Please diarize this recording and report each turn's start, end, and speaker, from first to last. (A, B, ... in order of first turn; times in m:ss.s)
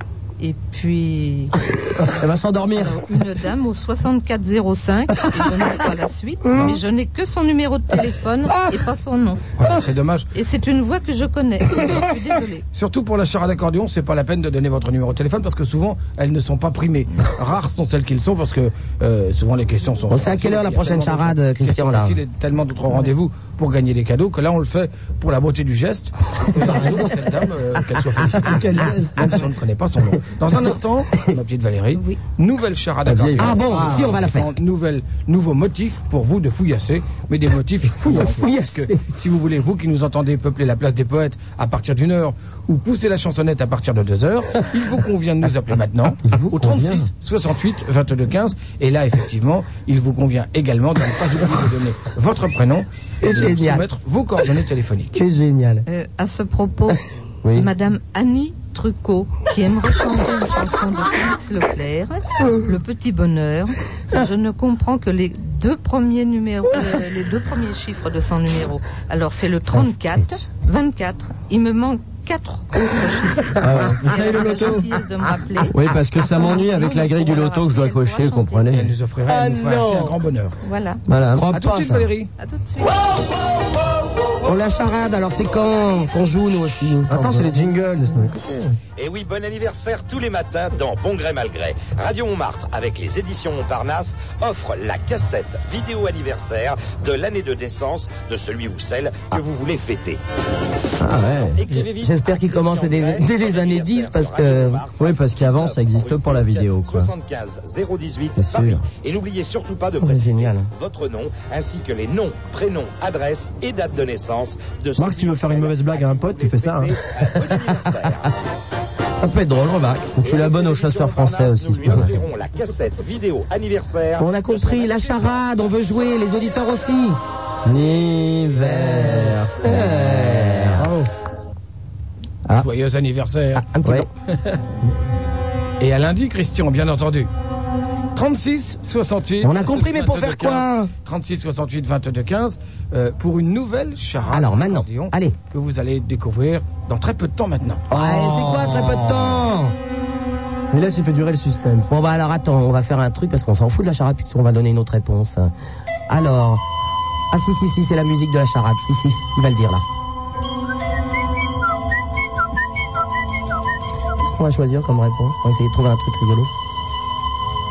0:00.4-0:02.0 A
0:02.1-0:03.0 B
0:02.8-0:09.6 A
0:09.6-0:10.3 C
0:10.3-0:12.6 A
0:12.7-0:55.2 C
0:20.1-0:22.2 D
0:26.6-0:27.1 E
0:28.4-0:29.4 E
0:31.9-0:32.2 A
0:33.0-0:33.7 B
0:33.4-0:34.5 D
0:33.6-0:34.2 E
0:38.0-0:39.1 D
0:46.2-0:47.1 B
0:53.2-0:53.8 D
0:55.2-0:55.8 D
0:55.9-0:57.0 A
0:57.4-0:57.7 B
0:57.5-1:18.7 A
1:09.6-1:10.3 B
1:13.6-1:14.8 B
1:15.7-1:18.9 B
1:18.7-1:20.5 C
1:19.3-1:20.2 D
1:20.6-1:21.0 A
1:21.1-1:21.4 B
1:21.3-1:22.1 D
1:21.5-1:22.3 C
1:22.4-1:23.0 A
1:24.4-1:27.5 D
1:27.1-1:28.4 E
1:29.0-1:40.2 F
1:41.0-1:41.6 B
1:41.5-1:58.3 F
1:42.0-1:44.8 D
1:45.0-1:47.1 B
1:48.3-1:48.8 B
1:50.0-1:50.7 D
1:55.0-1:56.9 E
1:59.1-2:00.0 D
2:00.2-2:02.1 B
2:00.2-2:04.8 F
2:04.2-2:07.2 D
2:04.6-2:05.4 C
2:07.6-2:10.9 B
2:08.6-2:10.9 D
2:10.8-2:11.1 E
2:12.5-2:13.6 C
2:13.5-2:14.1 D
2:15.8-2:17.3 C
2:18.1-2:27.9 C
2:19.4-2:20.9 D
2:24.3-2:25.3 D
2:27.9-2:29.7 D
2:28.0-2:28.6 E
2:28.0-2:29.4 B
2:30.7-2:31.9 E
2:31.9-2:35.5 D
2:36.1-2:36.6 D
2:37.3-2:39.8 D
2:44.2-2:46.5 D